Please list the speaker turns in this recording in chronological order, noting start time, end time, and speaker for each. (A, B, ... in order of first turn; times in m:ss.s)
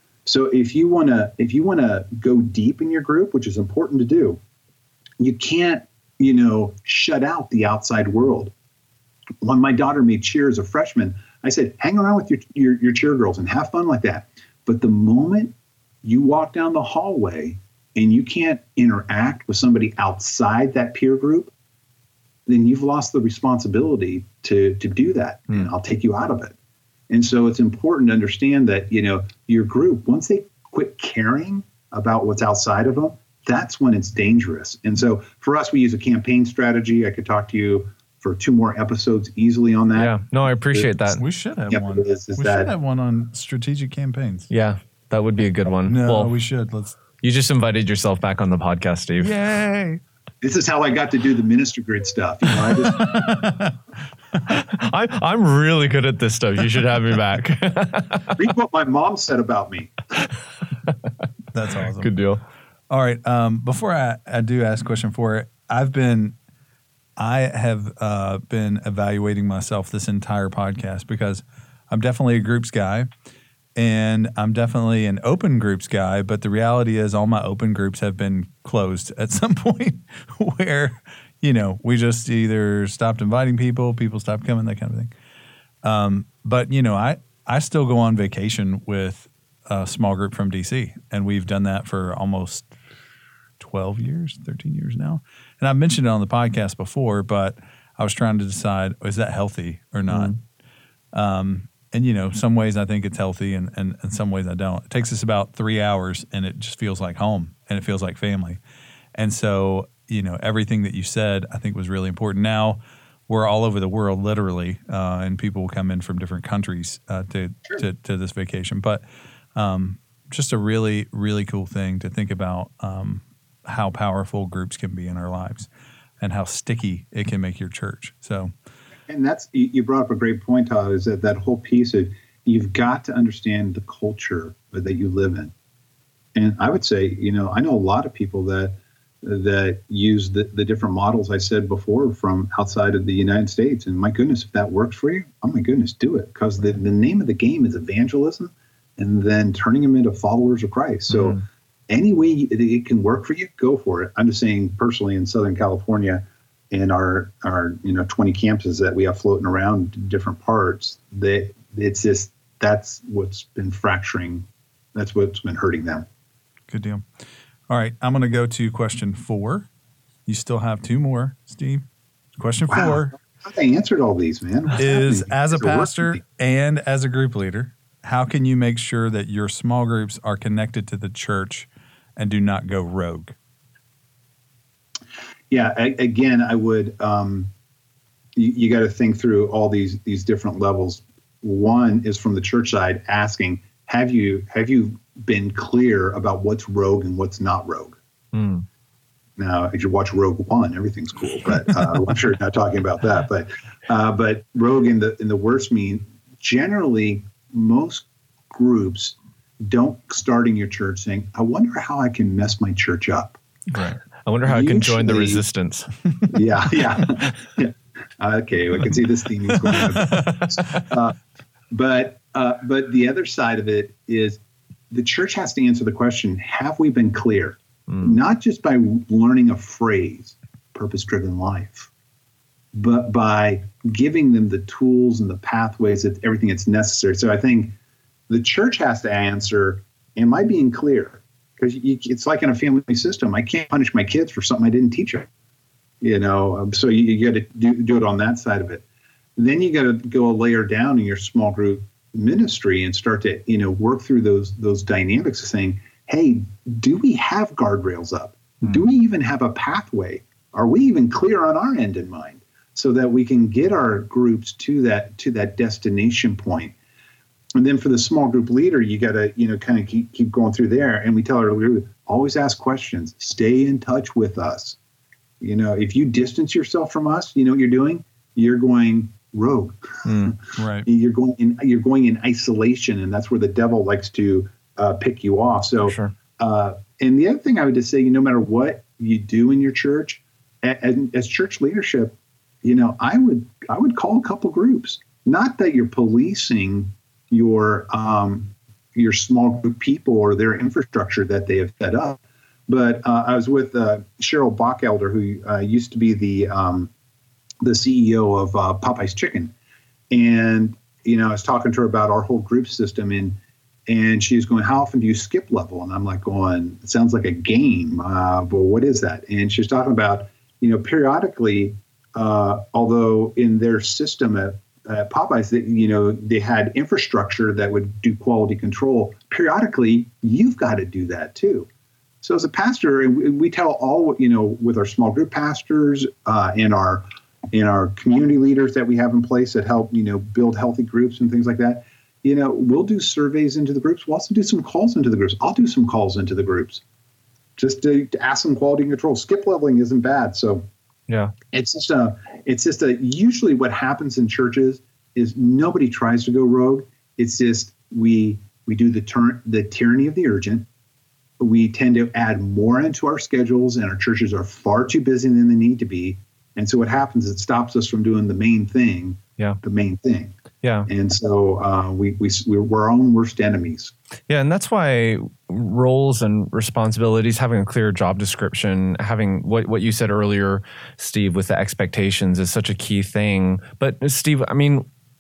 0:00.3-0:04.4 A
0:05.2-0:08.5 A
0:09.4-0:21.5 A
0:22.5-0:26.6 A
0:27.1-0:40.2 A
0:40.0-0:41.2 B
0:41.2-0:44.5 C
0:41.7-0:42.7 A
0:44.5-0:46.3 B
0:45.9-0:47.0 C
0:47.2-0:49.7 B
0:49.2-0:50.0 C
0:50.4-0:53.2 A
0:52.9-0:53.7 C
0:54.5-0:58.4 B
0:58.4-0:59.9 A
1:01.5-1:02.1 C
1:02.0-1:02.4 B
1:02.9-1:06.4 C
1:07.2-1:13.1 C
1:13.8-1:25.1 C
1:25.8-1:32.7 C
1:33.6-1:40.3 C
1:40.1-1:40.4 B
1:41.1-1:48.6 C
1:49.2-1:59.0 C
1:59.6-2:05.7 C
2:06.2-2:08.5 C
2:09.1-2:15.5 A
2:16.4-2:46.1 A
2:31.1-2:31.4 B
2:46.7-2:47.1 C
2:47.7-2:49.7 C
2:50.3-2:51.9 C
2:52.4-2:53.1 C
2:52.7-2:56.2 A
2:54.8-3:03.4 C
3:05.5-3:07.5 A
3:08.4-3:18.0 A
3:18.3-3:18.6 B
3:19.4-3:33.4 A
3:33.8-3:35.9 B
3:34.4-3:35.4 A
3:36.3-3:41.2 A
3:39.7-3:40.4 C
3:41.7-3:44.4 A
3:44.9-3:51.9 A
3:47.9-3:48.2 B
3:52.7-3:57.8 A
3:58.3-4:05.3 A
4:06.0-4:08.8 A
4:09.4-4:26.8 A
4:27.6-4:34.8 A
4:35.4-5:06.9 A
4:40.0-4:40.4 B
4:40.6-4:40.9 C
4:45.9-4:46.1 B
5:07.6-5:09.5 A
5:10.1-5:31.7 A
5:32.2-5:46.8 A
5:47.6-5:50.7 A
5:51.1-5:51.3 B
5:51.5-6:00.7 A
6:01.4-6:10.4 A
6:10.6-6:10.9 B
6:10.9-6:13.9 A
6:14.3-6:24.9 B